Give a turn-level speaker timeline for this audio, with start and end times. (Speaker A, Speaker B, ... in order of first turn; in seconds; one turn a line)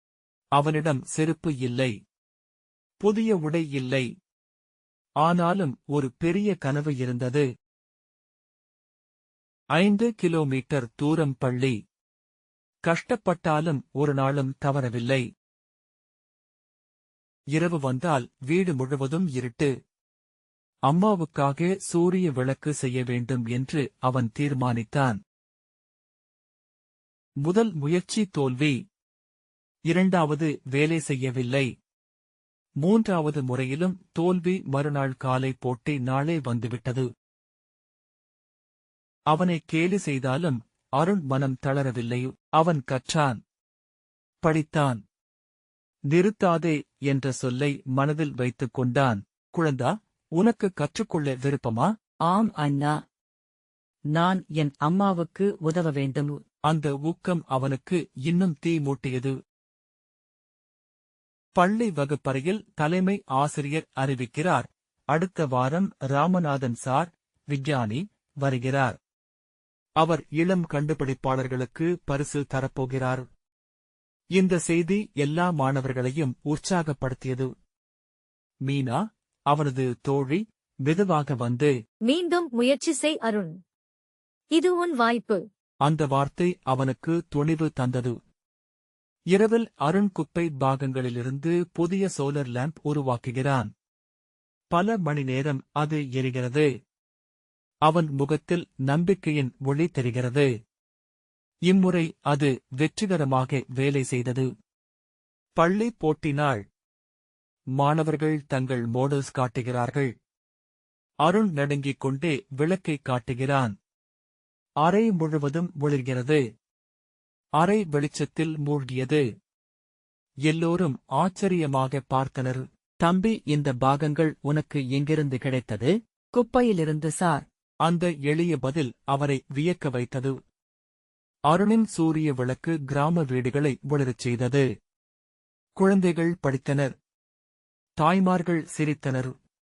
Speaker A: 0.6-1.9
Speaker A: 3.0-4.1
Speaker A: 5.2-7.4
Speaker A: 9.7-11.7
Speaker A: 12.8-15.2
Speaker A: 17.5-19.7
Speaker A: 20.9-25.2
Speaker A: 27.4-28.8
Speaker A: 29.9-31.7
Speaker A: 32.8-37.0
Speaker A: 39.3-43.4
Speaker A: 44.4-45.0
Speaker A: 46.1-51.9
Speaker B: 52.3-52.9
Speaker B: 54.1-56.3
Speaker A: 56.7-59.3
Speaker A: 61.6-69.0
Speaker A: 70.0-73.2
Speaker A: 74.4-77.5
Speaker A: 78.6-79.0
Speaker A: 79.5-81.7
Speaker C: 82.0-83.5
Speaker C: 84.5-85.4
Speaker A: 85.8-88.1
Speaker A: 89.3-93.7
Speaker A: 94.7-96.7
Speaker A: 97.8-100.5
Speaker A: 101.7-104.5
Speaker A: 105.6-106.6
Speaker A: 107.8-110.1
Speaker A: 111.2-113.7
Speaker A: 114.8-116.4
Speaker A: 117.6-119.2
Speaker A: 120.5-122.6
Speaker B: 123.1-125.2
Speaker A: 123.9-125.9
Speaker B: 126.3-127.3
Speaker A: 126.5-130.3
Speaker A: 131.5-134.7
Speaker A: 135.8-136.9
Speaker A: 138.0-139.3